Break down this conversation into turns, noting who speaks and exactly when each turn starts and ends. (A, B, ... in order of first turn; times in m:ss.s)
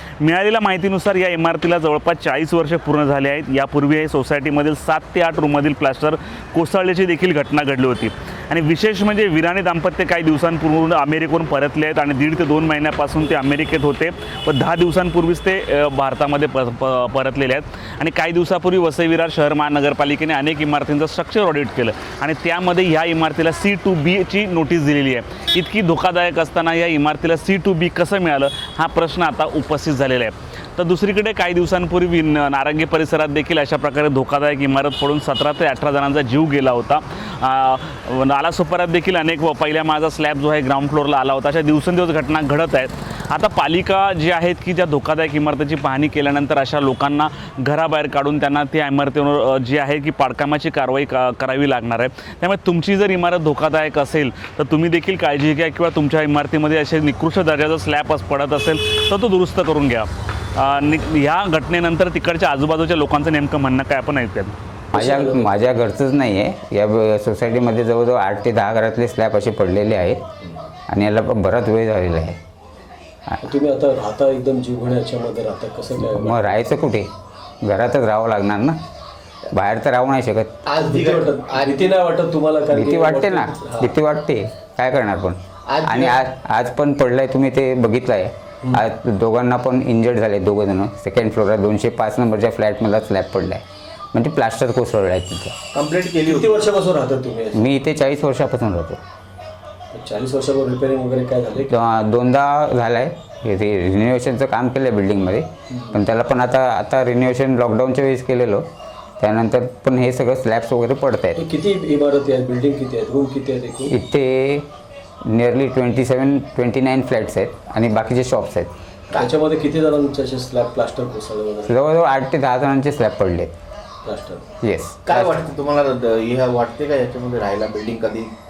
0:00.2-1:04.6 A
1:04.9-1:05.5 B
1:04.9-1:10.2 C
1:10.9-1:12.4 C
1:13.4-1:16.5 B
1:16.0-1:17.1 C
1:17.6-1:18.8 C
1:19.5-1:20.6 C
1:20.6-1:22.0 D
1:20.7-1:24.0 B
1:22.7-1:35.6 C
1:25.7-1:26.2 D
1:35.7-1:36.6 D
1:36.2-1:37.6 B
1:37.5-1:39.0 C
1:39.9-1:41.8 B
1:41.6-1:48.6 C
1:49.2-1:51.4 C
1:51.4-1:53.9 B
1:53.9-1:54.7 C
1:55.2-1:58.7 C
1:59.1-2:01.8 B
2:01.6-2:03.5 C
2:04.0-2:04.4 B
2:04.6-2:05.4 C
2:05.0-2:08.3 D